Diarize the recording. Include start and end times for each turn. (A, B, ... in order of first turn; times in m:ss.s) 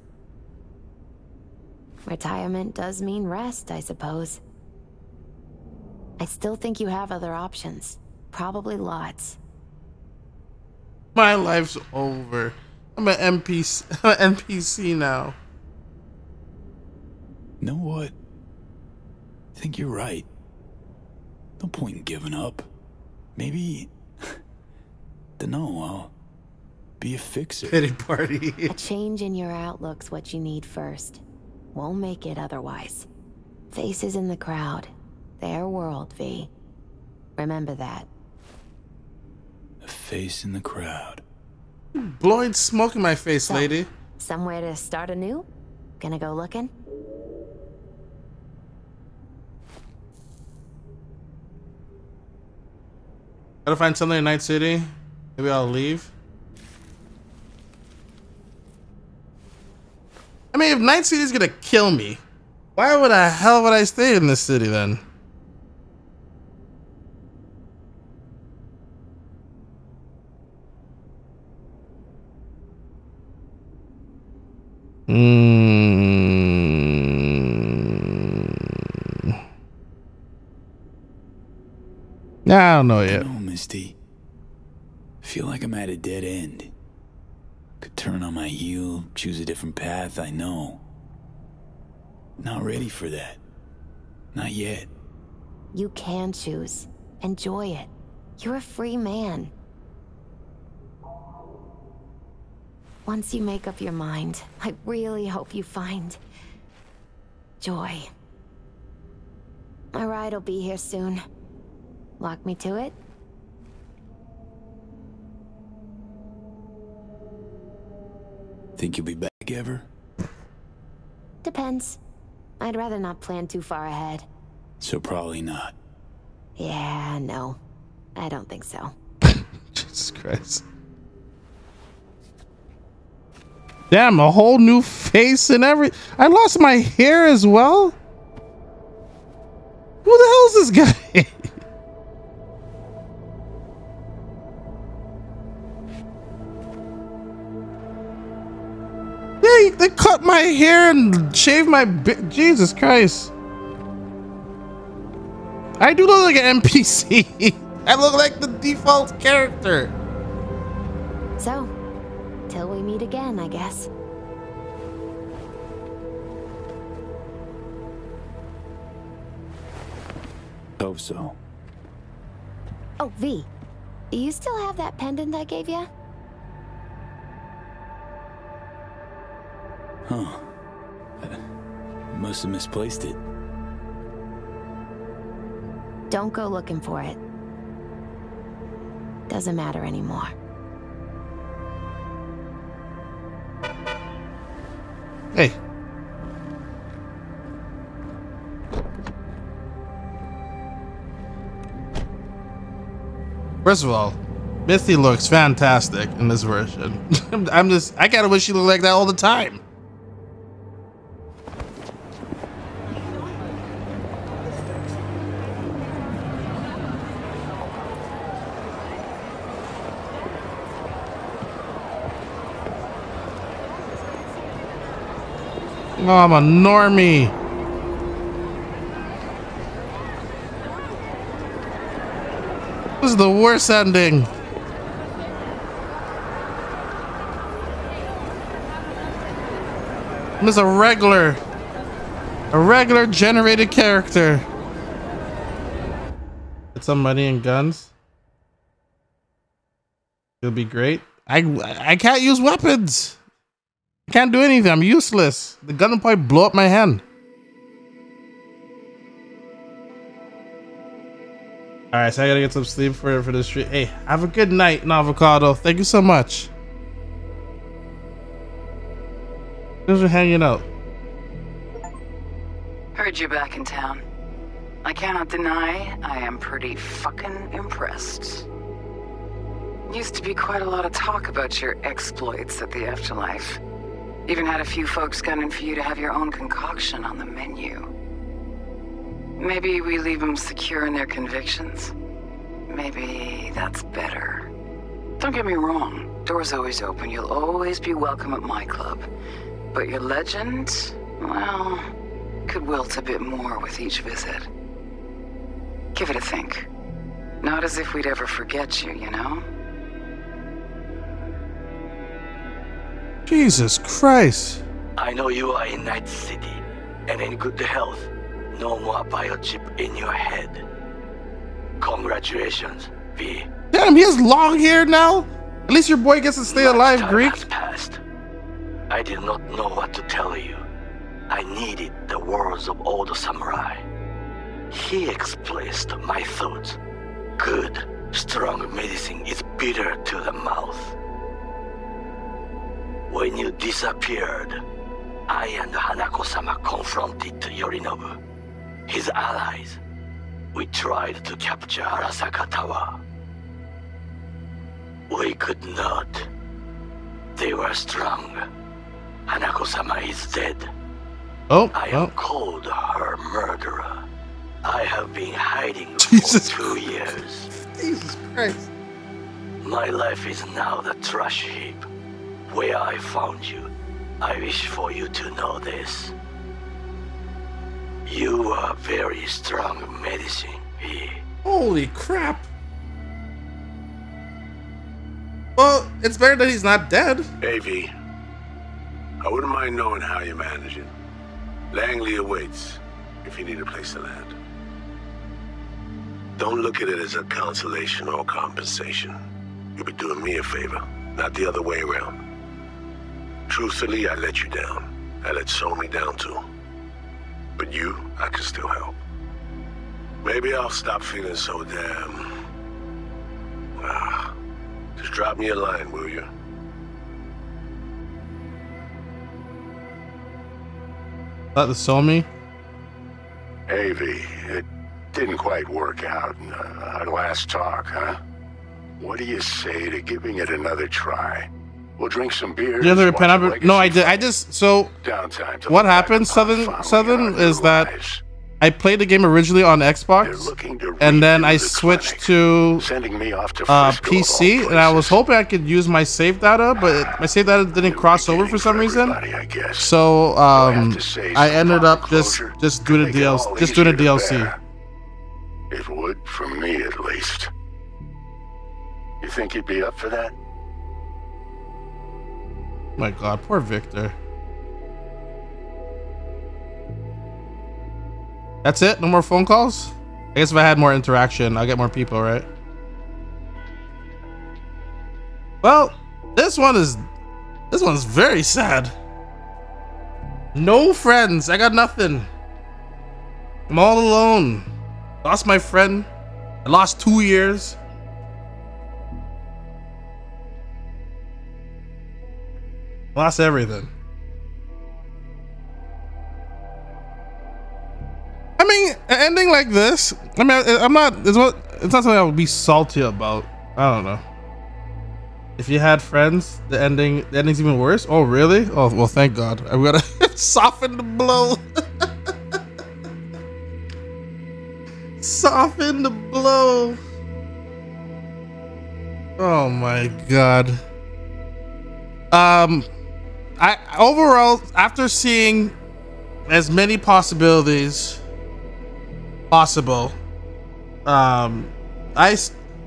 0:02.0-0:04.4 A
0:06.2-0:09.4 A
0:11.1-0:15.3 B
0:17.6-0:18.1 C
0:19.6-0:20.3 C
0:21.6-0:22.7 C
0:23.4-0:24.4 C
0:25.4-0:26.1 C
0:27.0-0:27.8 C
0:27.7-0:28.7 B
0:28.7-0:31.2 A
0:31.7-0:33.1 A
0:33.7-0:36.5 A
0:37.4-0:38.1 A
0:39.8-0:41.2 C
0:41.9-0:43.9 B
0:43.5-0:45.4 A
0:46.0-0:46.7 A
0:53.6-0:56.1 B
1:00.5-1:02.2 B
1:02.8-1:05.0 B
1:15.1-1:19.3 B
1:22.4-1:23.3 B
1:23.1-1:24.0 C
1:25.2-1:26.7 C
1:27.8-1:30.8 C
1:32.4-1:33.4 C
1:34.3-1:34.9 C
1:35.7-1:39.5 A
1:43.0-1:46.2 A
1:47.6-1:48.1 A
1:49.9-1:51.2 A
1:52.2-1:52.9 A
1:58.8-1:59.9 C
2:01.4-2:02.0 A
2:02.6-2:04.3 A
2:04.8-2:05.7 C
2:06.6-2:07.6 A
2:08.2-2:08.9 A
2:09.3-2:10.6 B
2:13.9-2:18.0 B
2:20.0-2:21.5 B
2:29.4-2:33.3 B
2:35.8-2:39.9 B
2:41.4-2:41.7 A
2:42.5-2:43.9 A
2:50.8-2:51.4 C
2:53.0-2:53.5 A
2:54.1-2:55.9 A
3:00.0-3:00.5 C
3:01.2-3:01.5 C
3:02.1-3:03.2 C
3:06.1-3:07.2 A
3:09.3-3:10.3 A
3:23.6-3:29.6 B
3:46.0-3:47.3 B
3:53.0-3:54.3 B
4:00.4-4:01.4 B
4:02.5-4:04.4 B
4:06.7-4:07.9 B
4:10.4-4:13.2 B
4:14.1-4:17.0 B
4:21.9-4:26.5 B
4:29.9-4:30.6 B
4:32.9-4:34.0 D
4:34.8-4:38.4 D
4:39.9-4:43.6 D
4:44.3-4:47.9 D
4:49.4-4:51.9 D
4:52.7-4:54.5 D
4:55.2-4:59.1 D
4:59.7-5:01.9 D
5:02.5-5:04.5 D
5:05.9-5:06.7 D
5:07.4-5:09.4 D
5:13.3-5:14.6 B
5:15.0-5:20.6 E
5:21.8-5:23.5 E
5:23.7-5:27.4 B
5:26.5-5:28.0 E
5:28.9-5:30.6 E
5:31.3-5:33.8 E
5:34.7-5:36.8 E
5:37.4-5:41.0 E
5:43.1-5:44.6 E
5:45.3-5:48.2 E
5:48.9-5:49.8 E
5:50.5-5:53.0 E
5:55.1-5:56.3 E
5:57.4-5:58.4 E
5:59.3-6:00.7 E
6:01.5-6:02.1 B
6:01.7-6:04.0 E
6:04.6-6:07.5 E
6:06.0-6:06.9 B
6:07.7-6:08.7 B
6:09.6-6:11.8 E
6:12.5-6:13.7 E
6:14.2-6:16.1 E
6:18.0-6:21.2 E
6:21.4-6:22.5 B
6:25.6-6:27.3 B
6:27.4-6:27.9 F
6:29.2-6:30.9 F
6:31.7-6:34.3 F
6:36.4-6:39.2 F
6:39.8-6:42.2 F
6:43.5-6:46.4 F
6:47.6-6:49.0 F
6:50.2-6:52.3 F
6:53.8-6:54.3 F
6:55.0-6:56.3 F
7:01.6-7:02.3 B
7:03.7-7:08.2 G
7:09.0-7:14.3 G
7:12.8-7:14.9 B
7:15.0-7:18.2 G
7:15.7-7:17.9 B
7:18.6-7:22.8 B
7:20.2-7:25.2 G
7:23.7-7:29.2 B
7:26.8-7:27.1 G
7:27.7-7:29.9 G
7:29.8-7:34.5 B
7:30.5-7:34.6 G
7:35.7-7:37.5 G
7:39.2-7:40.3 G
7:43.0-7:44.1 B
7:48.6-7:52.5 B
7:55.6-7:57.0 B
7:57.7-7:58.9 B
8:00.6-8:02.3 B
8:03.7-8:04.7 B
8:05.2-8:06.1 B
8:06.6-8:07.8 B
8:13.1-8:13.9 B
8:18.6-8:24.2 B
8:25.6-8:32.0 B
8:35.2-8:37.0 B
8:39.4-8:40.8 B
8:42.3-8:42.9 B
8:43.6-8:45.7 B
8:46.5-8:48.2 B
8:49.5-8:50.1 B
8:51.0-8:52.5 B